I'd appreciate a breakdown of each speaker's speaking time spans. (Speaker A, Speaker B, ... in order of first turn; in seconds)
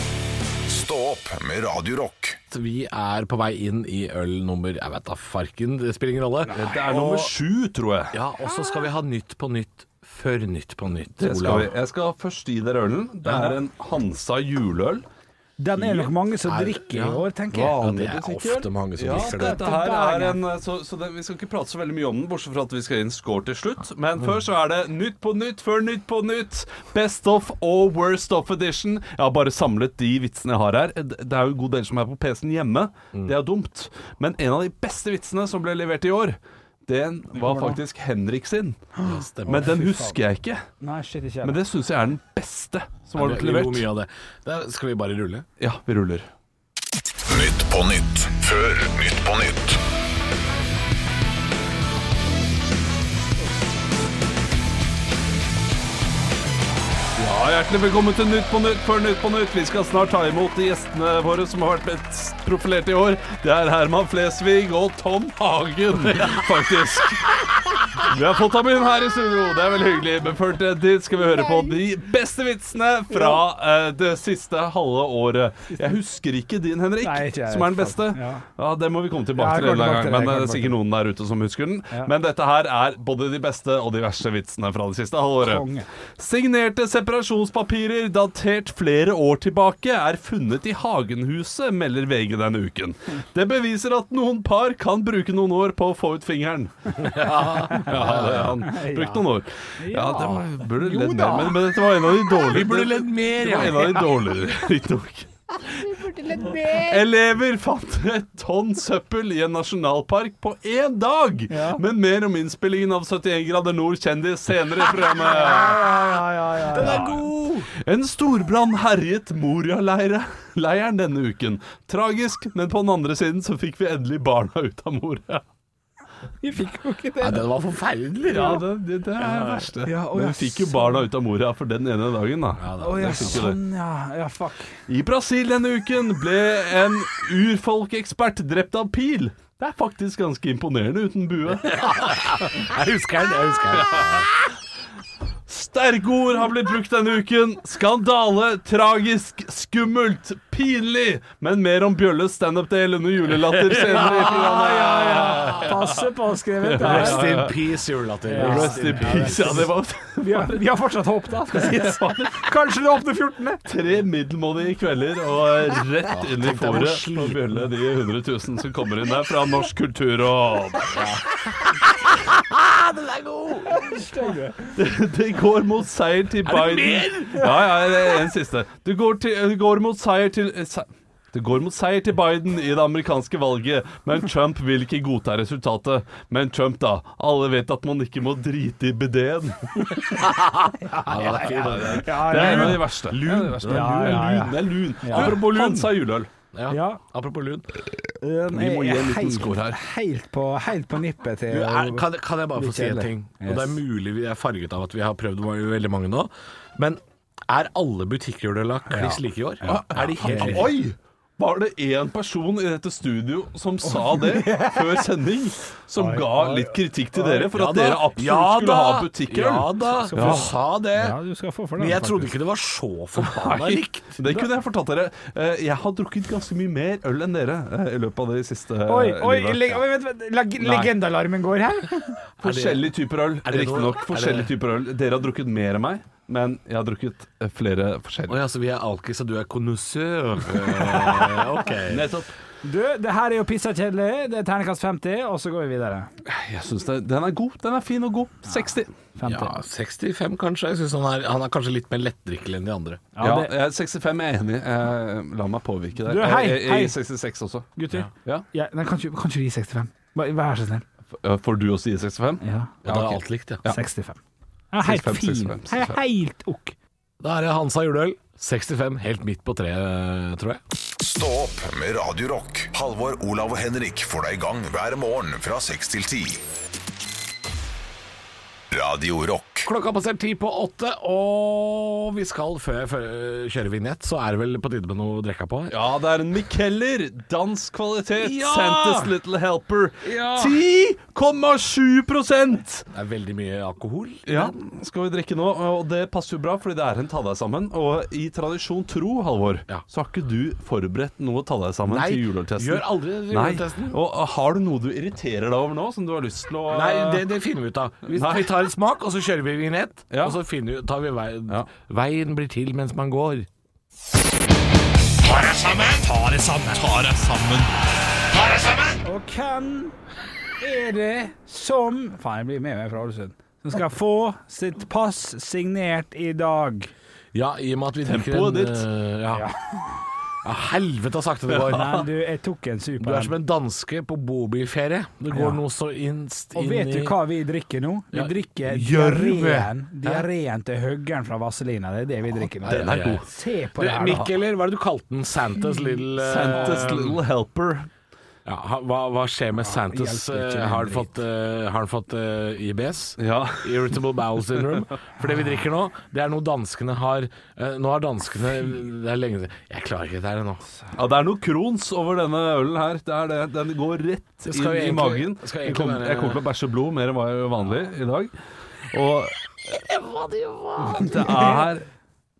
Speaker A: 0.7-2.4, 47.3-49.8, 271.0-276.4, 278.7-279.7
Speaker B: 2.5-7.3, 8.1-11.7, 16.4-19.6, 39.0-39.7, 43.1-45.5, 97.0-98.6, 102.3-104.2, 116.7-117.5, 127.2-128.6, 129.2-129.7, 132.6-133.5, 141.7-144.3, 153.6-155.7, 156.8-159.7, 166.1-167.4, 170.9-174.0, 176.4-177.9, 190.1-194.3, 195.1-195.9, 196.5-197.7, 201.5-210.8, 216.3-216.6, 217.1-221.2, 221.8-224.2, 232.4-232.9, 233.4-234.5, 238.3-242.1, 249.2-253.1, 262.8-263.6, 267.2-270.6, 279.6-285.7, 288.2-289.1, 290.0-290.6, 292.9-294.5, 301.9-304.0, 306.7-313.5, 315.2-316.1, 318.3-319.0, 327.3-329.5, 330.4-332.0, 333.0-337.2, 338.1-340.2, 342.6-347.2, 348.4-360.6, 364.4-366.4, 369.7-371.6
Speaker C: 6.5-8.2, 11.2-15.0, 15.8-16.1, 17.5-38.9, 39.5-40.6, 41.4-43.9, 45.6-46.2, 57.2-67.4, 68.0-85.7, 86.2-97.1, 97.7-105.9, 106.5-115.8, 116.7-125.4, 128.3-133.6, 134.9-142.1, 143.8-144.1, 145.5-156.0, 156.6-157.6, 158.4-160.6, 161.5-162.4, 163.6-170.9, 174.7-189.7, 191.4-196.3, 198.5-199.8, 209.7-220.4, 223.2-229.8, 230.6-230.9, 232.4-238.4, 241.9-242.3, 246.2-248.9, 253.2-257.7, 261.2-263.8, 264.8-266.0, 285.7-292.8, 294.3-307.2, 308.1-308.5, 310.1-310.4, 316.7-317.7, 328.0-328.9, 331.5-332.1, 342.6-343.3, 344.0-344.3, 346.1-347.9, 353.2-354.8, 360.9-368.3, 368.9-369.4, 370.9-371.9
Speaker D: 15.6-17.8, 19.1-20.4, 37.3-37.8, 39.0-40.1, 40.8-41.6, 73.1-73.4, 77.0-78.4, 79.3-80.8, 85.4-85.9, 97.8-99.2, 99.8-101.7, 105.8-107.0, 111.5-111.8, 115.2-117.0, 126.4-127.4, 129.8-131.1, 132.8-134.7, 153.8-157.5, 158.3-159.6, 160.2-163.6, 173.7-174.7, 190.8-192.9, 193.6-195.4, 196.7-197.0, 198.2-203.8, 208.9-210.7, 213.9-215.1, 215.9-216.3, 220.1-222.3, 228.9-232.2, 242.6-246.1, 248.5-249.6, 253.2-253.5, 256.1-256.9, 257.8-260.8, 262.4-262.7, 263.6-264.2, 264.7-266.7, 316.1-316.9, 319.0-319.9, 320.6-326.9, 331.7-333.3, 335.3-335.6, 336.5-344.3, 346.5-346.9, 349.6-351.1